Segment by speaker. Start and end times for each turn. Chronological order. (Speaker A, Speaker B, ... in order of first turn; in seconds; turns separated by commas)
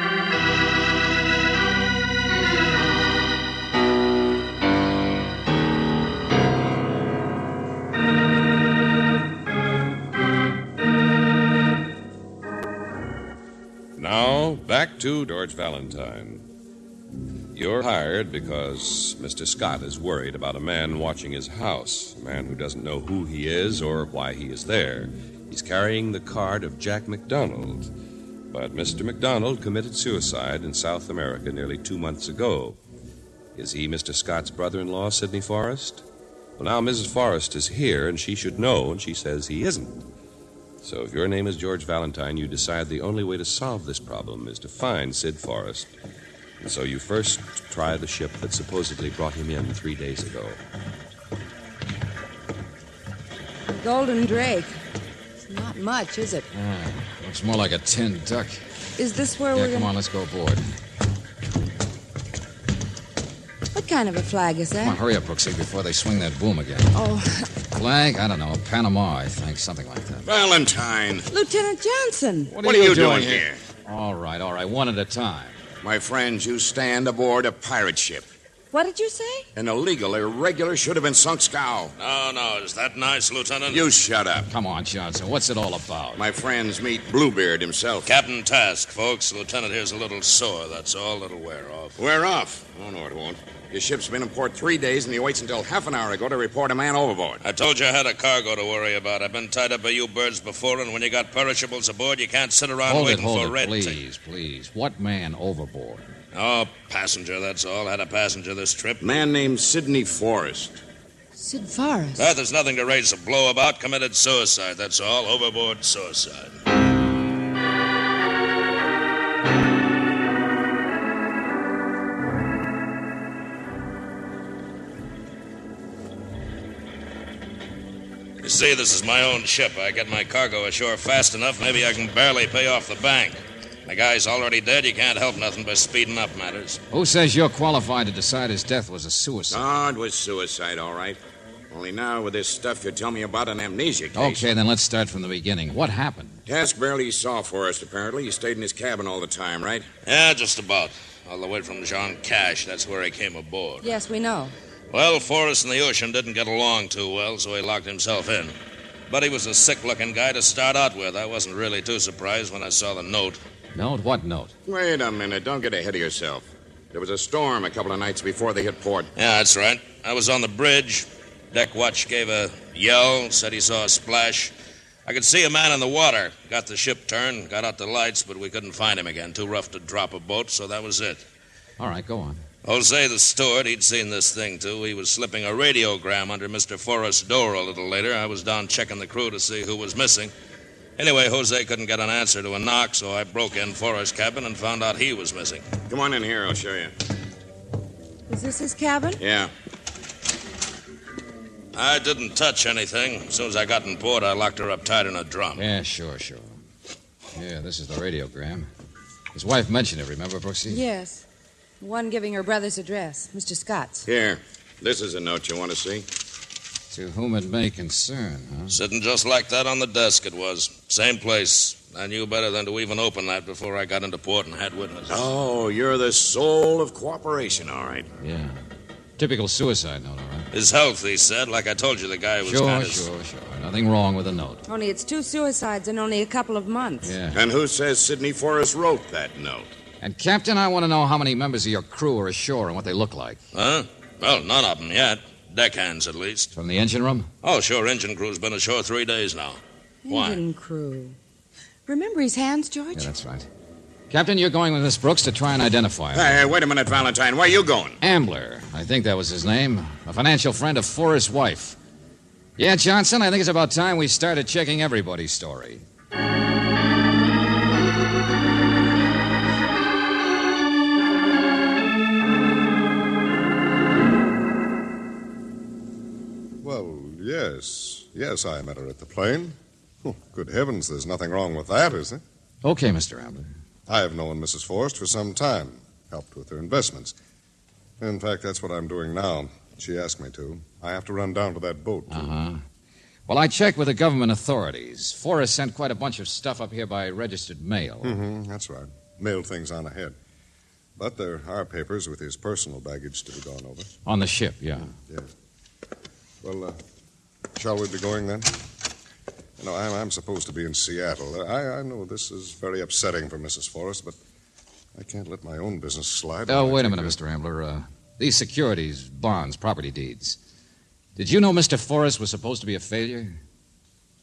Speaker A: 13.9-16.5, Speaker A: 17.5-27.9, Speaker A: 28.5-32.8, Speaker A: 33.5-36.0, Speaker A: 36.6-40.0, Speaker A: 40.8-45.9, Speaker A: 46.6-50.6, Speaker B: 53.7-54.8, Speaker B: 55.4-56.5, Speaker C: 56.5-58.6, Speaker B: 59.0-59.9, Speaker C: 59.5-60.7, Speaker B: 63.7-65.0, Speaker C: 64.8-66.9, Speaker B: 66.9-67.5, Speaker C: 67.7-70.3, Speaker D: 70.2-71.3, Speaker B: 71.3-72.5, Speaker C: 72.5-75.6, Speaker D: 72.6-73.6, Speaker D: 75.8-78.3, Speaker B: 78.7-79.5, Speaker D: 79.5-81.9, Speaker E: 82.0-84.0, Speaker D: 83.7-84.5, Speaker C: 84.5-86.2, Speaker D: 86.2-88.1, Speaker E: 88.0-92.0, Speaker D: 92.0-97.4, Speaker E: 97.4-104.0, Speaker C: 102.8-106.1, Speaker E: 106.3-109.2, Speaker D: 109.0-110.8, Speaker B: 111.3-112.3, Speaker E: 112.2-116.6, Speaker E: 128.4-136.8, Speaker C: 136.9-139.6, Speaker D: 139.5-141.2, Speaker D: 141.7-144.5, Speaker C: 144.1-146.4, Speaker D: 146.4-149.9, Speaker E: 150.0-153.9, Speaker B: 153.8-154.5, Speaker E: 154.9-158.6, Speaker E: 159.1-163.4, Speaker C: 163.7-164.5, Speaker D: 164.7-169.1, Speaker E: 169.2-174.5, Speaker E: 175.1-181.2, Speaker C: 181.8-182.4, Speaker E: 182.6-190.3, Speaker E: 191.0-195.6, Speaker D: 195.9-196.9, Speaker B: 198.3-199.2, Speaker D: 199.2-199.5, Speaker E: 201.7-205.6, Speaker C: 205.6-206.6, Speaker C: 207.3-208.7, Speaker C: 209.3-210.8, Speaker B: 210.7-211.2, Speaker B: 211.8-214.1, Speaker D: 214.1-216.1, Speaker C: 216.9-218.8, Speaker E: 218.7-225.2, Speaker D: 225.1-228.1, Speaker C: 228.2-228.6, Speaker C: 229.2-230.5, Speaker E: 230.5-233.1, Speaker C: 232.4-234.6, Speaker B: 234.7-237.1, Speaker C: 237.0-237.4, Speaker D: 237.3-239.7, Speaker C: 240.0-243.4, Speaker E: 243.5-246.5, Speaker C: 246.5-247.3, Speaker E: 247.4-250.4, Speaker B: 250.0-251.2, Speaker B: 251.8-253.1, Speaker C: 252.9-253.5, Speaker C: 254.1-256.4, Speaker D: 256.1-258.0, Speaker C: 258.0-261.8, Speaker C: 262.6-265.8, Speaker F: 276.6-282.2, Speaker C: 282.6-283.5, Speaker F: 283.9-287.1, Speaker F: 288.0-292.3, Speaker C: 292.1-292.6, Speaker C: 293.3-298.2, Speaker F: 298.0-300.1, Speaker F: 301.0-303.9, Speaker C: 304.1-304.9, Speaker F: 306.4-306.8, Speaker F: 307.5-308.5, Speaker F: 309.6-314.1, Speaker F: 314.9-317.2, Speaker C: 316.5-320.4, Speaker C: 321.1-323.4